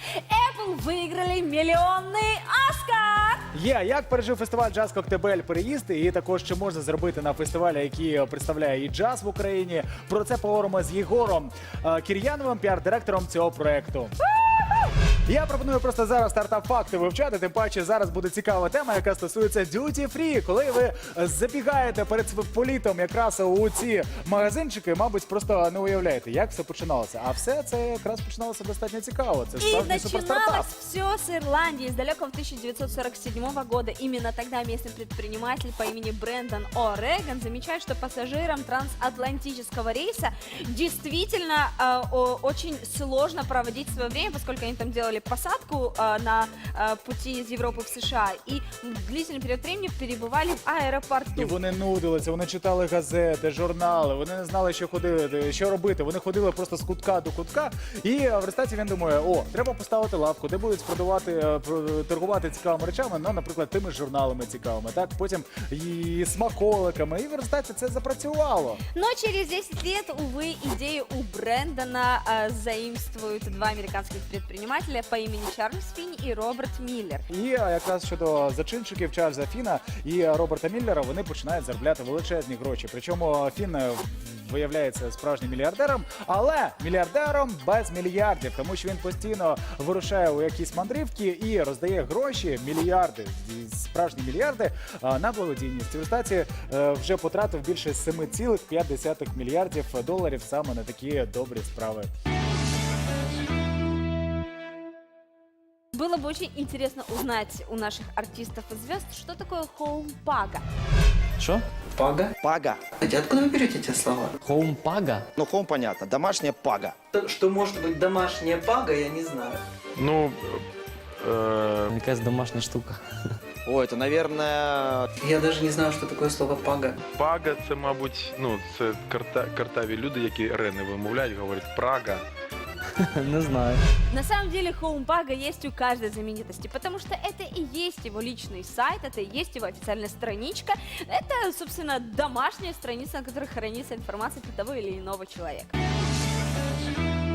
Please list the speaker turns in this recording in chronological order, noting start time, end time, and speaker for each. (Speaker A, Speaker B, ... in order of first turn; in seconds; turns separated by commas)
Speaker A: 0.2-3.4, Speaker B: 3.5-14.1, Speaker B: 15.2-30.7, Speaker A: 29.6-51.6, Speaker B: 51.4-68.8, Speaker A: 68.9-77.2, Speaker B: 77.3-102.1, Speaker A: 105.9-110.6, Speaker C: 111.4-111.6, Speaker D: 111.9-112.3, Speaker E: 112.4-112.8, Speaker D: 113.0-114.3, Speaker C: 114.4-115.2, Speaker E: 115.3-117.0, Speaker D: 117.1-119.6, Speaker F: 120.0-120.6, Speaker F: 121.2-121.9, Speaker C: 121.9-123.0, Speaker E: 123.6-125.1, Speaker D: 125.2-127.0, Speaker F: 127.2-132.2, Speaker C: 133.0-133.8, Speaker A: 134.1-145.7